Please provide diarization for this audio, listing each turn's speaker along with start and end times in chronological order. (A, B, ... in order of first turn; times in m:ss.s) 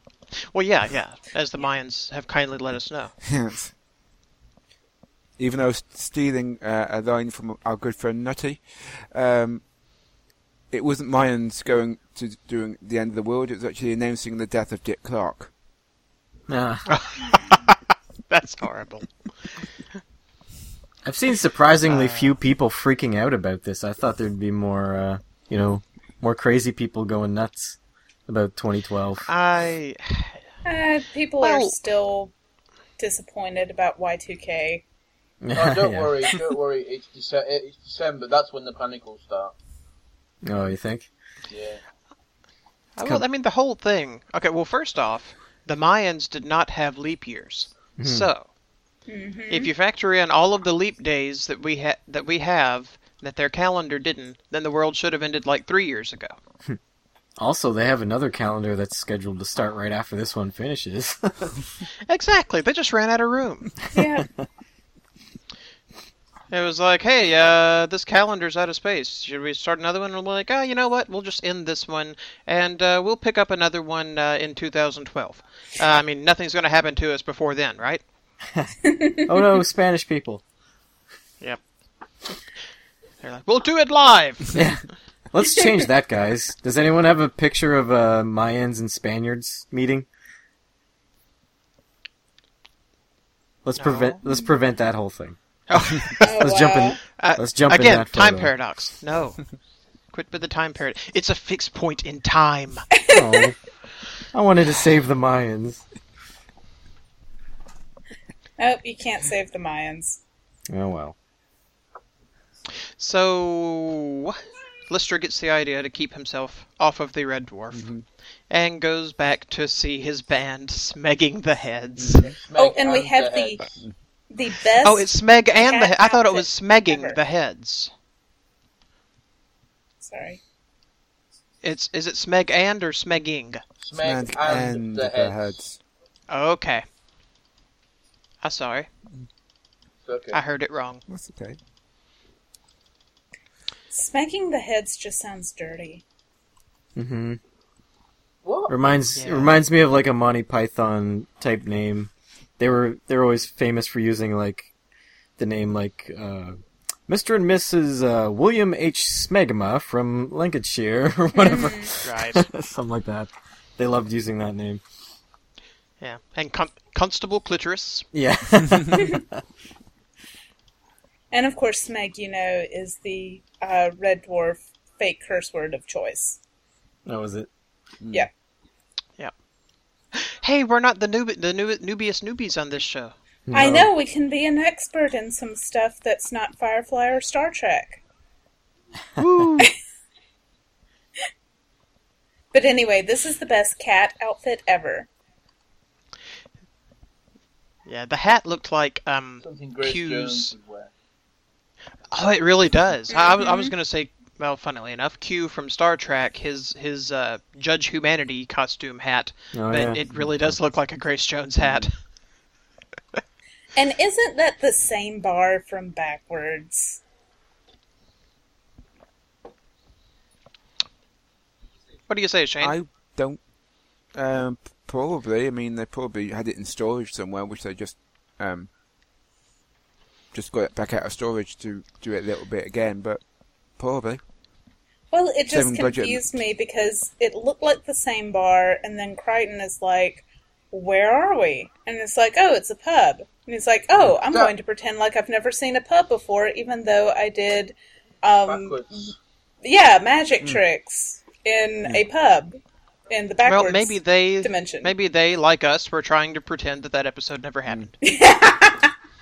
0:00.5-0:03.1 A
0:03.2-0:03.7 B
0:05.4-0:09.6 B
0:10.7-0:15.5 B
0:16.5-0:16.9 C
0:16.9-0:17.8 A
0:18.3-0:19.5 A
0:21.0-0:27.8 C
0:21.9-0:22.4 A
0:28.3-0:29.3 C
0:29.3-0:30.4 A
0:30.6-0:32.3 D
0:31.4-0:31.8 A
0:33.0-0:34.8 D
0:35.4-0:36.1 C
0:35.5-0:39.5 E
0:40.4-0:41.1 C
0:41.5-0:41.8 E
0:43.0-0:48.5 A
0:48.0-0:48.3 C
0:49.1-0:49.7 D
0:49.5-0:56.4 A
0:57.4-1:01.6 C
1:02.1-1:03.8 A
1:03.9-1:04.3 D
1:06.5-1:18.0 A
1:18.8-1:19.4 D
1:19.3-1:20.4 C
1:23.2-1:24.5 A
1:24.5-1:30.1 C
1:33.6-1:35.4 C
1:33.8-1:34.2 A
1:35.7-1:36.5 A
1:36.2-1:37.0 D
1:36.3-1:38.5 C
1:37.1-1:39.4 A
1:40.1-1:42.9 A
1:43.0-1:43.5 D
1:43.1-1:43.6 C
1:44.3-1:45.8 C
1:48.6-1:50.2 D
1:50.7-1:51.1 C
1:53.0-1:57.9 A
1:57.7-1:58.0 B
1:58.5-2:02.3 A
2:02.0-2:02.3 B
2:02.2-2:03.8 E
2:02.6-2:03.6 D
2:04.3-2:07.2 D
2:04.8-2:07.9 A
2:10.0-2:10.4 D
2:11.6-2:13.6 A
2:13.8-2:15.6 E
2:14.0-2:15.8 B
2:16.3-2:16.8 A
2:18.4-2:18.9 A
2:20.1-2:20.4 E
2:20.3-2:21.0 A
2:21.1-2:21.6 B
2:23.9-2:26.0 D
2:27.0-2:27.4 C
2:28.4-2:28.8 E
2:28.7-2:34.7 C
2:29.2-2:29.6 A
2:35.4-2:44.8 C
2:41.4-2:41.9 D
2:42.0-2:42.4 A
2:46.0-2:48.1 A
2:48.1-2:49.4 C
2:48.9-2:49.2 D
2:51.3-2:56.4 D
2:57.1-2:57.5 C
2:58.0-2:58.3 B
3:00.1-3:03.1 A
3:03.5-3:03.9 C
3:03.5-3:08.0 D
3:09.2-3:09.7 A
3:12.5-3:15.1 D
3:17.9-3:20.6 A
3:19.4-3:20.9 E
3:22.1-3:31.9 A
3:23.1-3:23.7 D
3:29.5-3:30.0 C
3:31.6-3:31.9 B
3:33.8-3:37.0 D
3:42.1-3:42.8 A
3:42.6-3:43.4 B
3:44.1-3:48.7 B
3:50.3-3:53.2 B
3:53.8-3:54.2 B
3:55.1-4:14.9 D
3:55.5-3:56.3 B
4:08.4-4:09.1 E
4:13.4-4:17.9 A
4:18.0-4:18.9 D